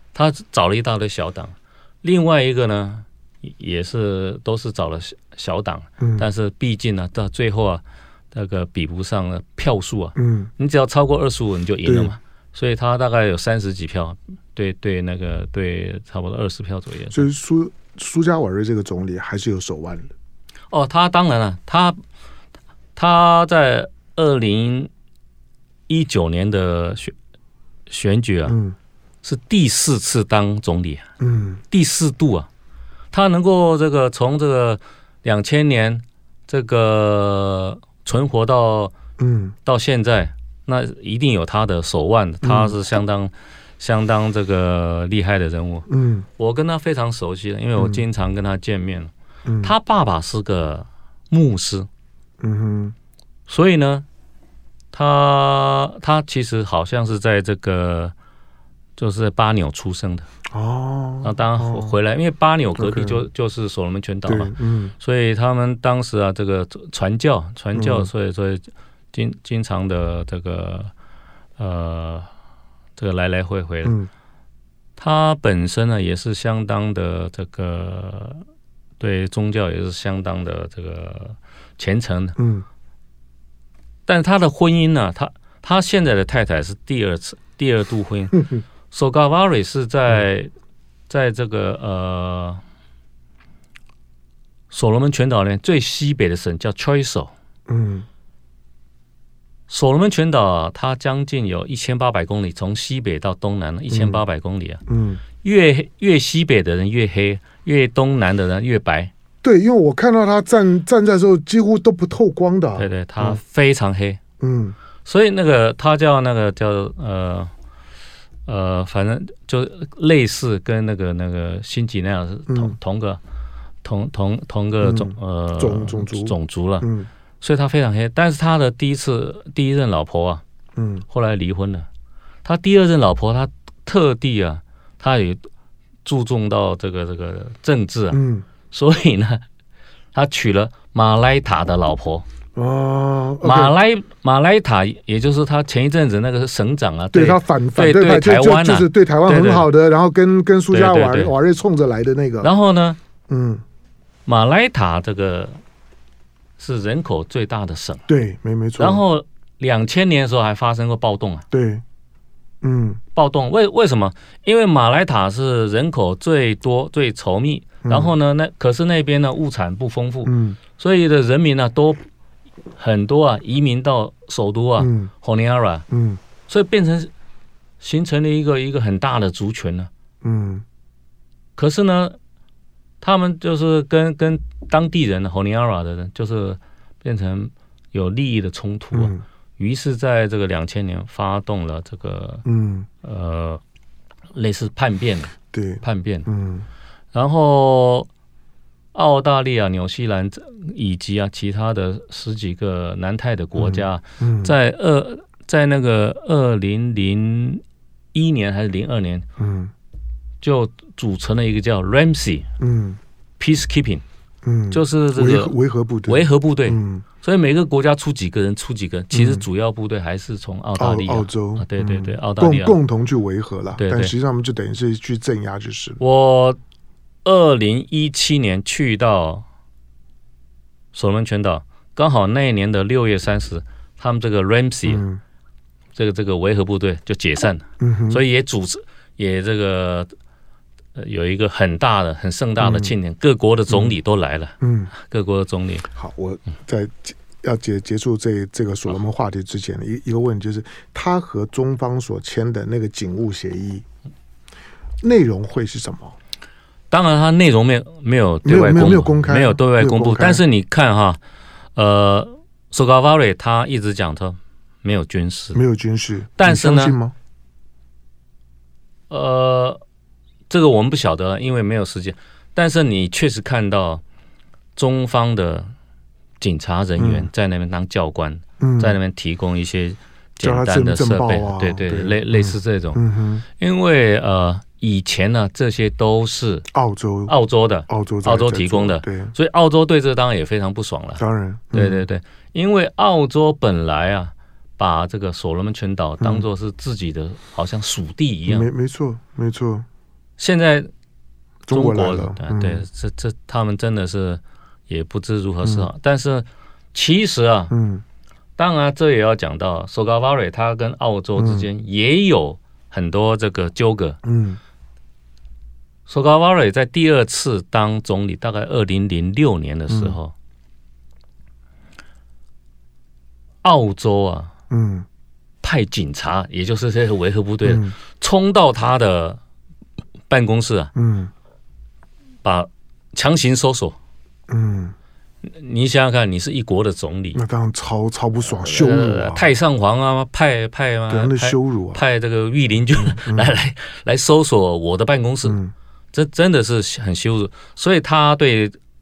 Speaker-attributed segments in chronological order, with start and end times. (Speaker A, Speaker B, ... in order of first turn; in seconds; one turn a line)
Speaker A: 0.1-17.3
Speaker B: 6.0-6.3
Speaker B: 10.2-10.5
Speaker B: 11.8-12.2
Speaker B: 17.1-20.1
Speaker A: 20.7-22.0
Speaker A: 23.0-24.9
Speaker A: 25.9-27.1
Speaker A: 27.9-28.6
Speaker B: 28.5-28.8
Speaker A: 29.2-31.1
Speaker B: 31.2-31.6
Speaker A: 31.7-32.5
Speaker A: 33.1-39.0
Speaker B: 39.2-39.6
Speaker A: 39.6-51.9
Speaker B: 42.4-42.8
Speaker B: 45.9-46.3
Speaker B: 47.8-48.0
Speaker B: 49.5-49.7
Speaker B: 52.4-53.0
Speaker A: 53.5-54.0
Speaker A: 54.9-58.1
Speaker A: 59.0-60.3
Speaker B: 60.5-61.9
Speaker A: 61.2-70.9
Speaker B: 62.8-63.2
Speaker B: 64.3-64.9
Speaker B: 67.8-68.1
Speaker A: 71.6-72.3
Speaker A: 73.0-74.0
Speaker B: 73.8-74.1
Speaker A: 75.0-78.4
Speaker A: 79.0-82.4
Speaker B: 82.4-82.7
Speaker A: 84.1-90.5
Speaker A: 91.1-92.6
Speaker A: 94.7-97.3
Speaker B: 97.7-98.1
Speaker A: 99.7-104.8
Speaker B: 103.9-104.2
Speaker B: 104.9-105.2
Speaker A: 105.4-109.1
Speaker B: 109.4-113.4
Speaker A: 112.8-114.2
Speaker B: 114.4-114.8
Speaker A: 115.0-117.5
Speaker A: 118.5-123.2
Speaker B: 122.5-122.8
Speaker A: 123.8-126.9
Speaker B: 124.8-127.1
Speaker A: 127.4-130.4
Speaker B: 130.8-131.1
Speaker A: 131.1-131.9
Speaker A: 132.4-135.5
Speaker A: 136.1-139.4
Speaker B: 138.1-138.5
Speaker A: 140.1-142.3
Speaker B: 142.6-143.8
Speaker A: 143.4-149.7
Speaker B: 147.1-152.5
Speaker A: 150.7-151.3
Speaker A: 152.4-153.0
Speaker B: 153.3-153.6
Speaker A: 154.3-155.6
Speaker A: 156.6-158.1
Speaker B: 158.1-159.0
Speaker A: 158.8-161.5
Speaker B: 161.5-161.8
Speaker B: 162.6-163.0
Speaker A: 163.2-172.0
Speaker B: 167.8-168.1
Speaker B: 170.3-170.6
Speaker A: 172.8-175.8
Speaker B: 174.8-175.1
Speaker B: 175.9-176.2
Speaker A: 176.5-177.1
Speaker A: 177.8-179.9
Speaker B: 180.2-180.7
Speaker A: 181.6-182.2
Speaker A: 183.0-192.4
Speaker B: 188.9-189.2
Speaker B: 192.4-192.9
Speaker A: 193.0-193.6
Speaker A: 194.3-196.3
Speaker B: 195.5-196.7
Speaker A: 197.1-198.1
Speaker A: 198.9-207.6
Speaker B: 203.6-204.6
Speaker A: 208.1-209.3
Speaker B: 209.4-209.7
Speaker A: 210.4-212.5
Speaker B: 212.6-213.0
Speaker A: 213.4-214.0
Speaker B: 214.4-217.1
Speaker A: 214.7-215.6
Speaker A: 216.1-222.8
Speaker B: 219.1-219.5
Speaker B: 220.8-226.0
Speaker A: 223.8-224.1
Speaker A: 226.0-226.6
Speaker A: 227.2-229.4
Speaker A: 230.9-235.0
Speaker B: 234.9-235.2
Speaker A: 236.0-240.1
Speaker B: 237.8-238.2
Speaker A: 240.9-245.9
Speaker B: 242.6-242.9
Speaker B: 243.7-243.9
Speaker B: 244.6-244.9
Speaker B: 245.9-253.8
Speaker B: 255.0-256.2
Speaker A: 256.9-261.2
Speaker B: 258.4-260.4
Speaker A: 261.8-265.6
Speaker B: 265.5-267.1
Speaker A: 266.4-267.0
Speaker A: 269.1-269.8
Speaker A: 270.5-274.0
Speaker A: 274.8-275.7
Speaker A: 276.4-283.0
Speaker B: 277.0-277.3
Speaker B: 278.6-279.0
Speaker B: 280.4-283.4
Speaker A: 283.6-286.7
Speaker B: 286.7-287.3
Speaker A: 287.3-298.7
Speaker B: 287.9-289.3
Speaker B: 291.2-292.1
Speaker B: 296.2-296.5
Speaker B: 298.5-299.9
Speaker A: 300.4-300.9
Speaker B: 301.7-302.9
Speaker A: 301.7-307.7
Speaker B: 305.6-305.9
Speaker B: 307.7-308.0
Speaker A: 308.6-314.2
Speaker B: 311.4-311.7
Speaker B: 314.2-314.6
Speaker A: 316.1-320.3
Speaker B: 319.9-320.2
Speaker A: 323.6-324.5
Speaker B: 324.7-325.1
Speaker A: 325.6-329.4
Speaker B: 327.6-327.9
Speaker A: 330.3-330.9
Speaker B: 330.9-331.3
Speaker A: 332.4-334.0
Speaker B: 334.5-334.9
Speaker A: 335.4-337.4
Speaker B: 337.4-339.5
Speaker A: 338.5-345.6
Speaker B: 341.1-342.0
Speaker B: 342.9-343.5
Speaker B: 345.5-345.7
Speaker A: 346.1-348.8